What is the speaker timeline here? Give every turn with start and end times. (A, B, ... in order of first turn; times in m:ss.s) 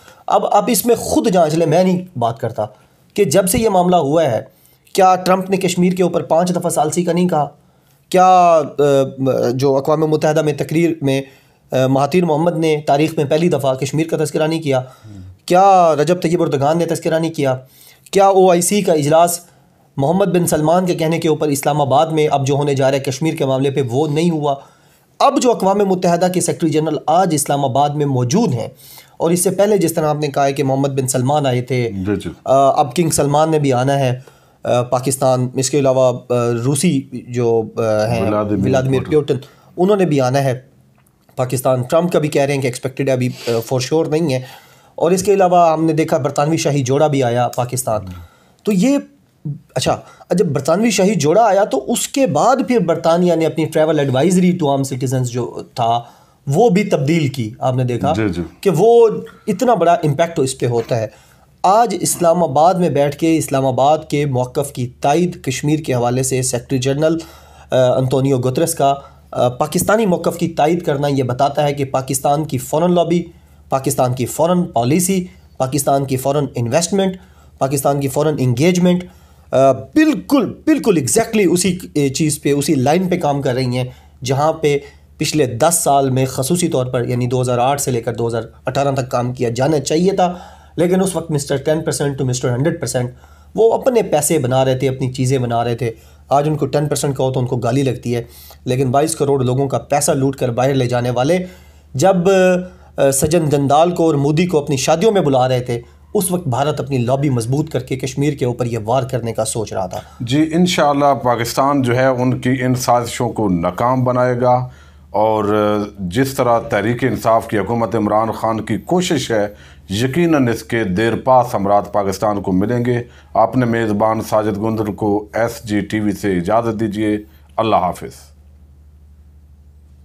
0:00.3-0:07.5 A
0:08.1-0:14.9 A
0:15.4-0:19.4 A
0:20.0-0:24.6 A
0:25.2-0:40.6 A
0:31.9-0:32.4 B
0:38.1-0:39.1 B
0:41.4-0:44.4 A
0:45.0-0:48.1 A
0:48.6-1:01.1 A
0:58.0-0:58.5 B
1:01.6-1:50.1 A
1:50.2-2:08.3 B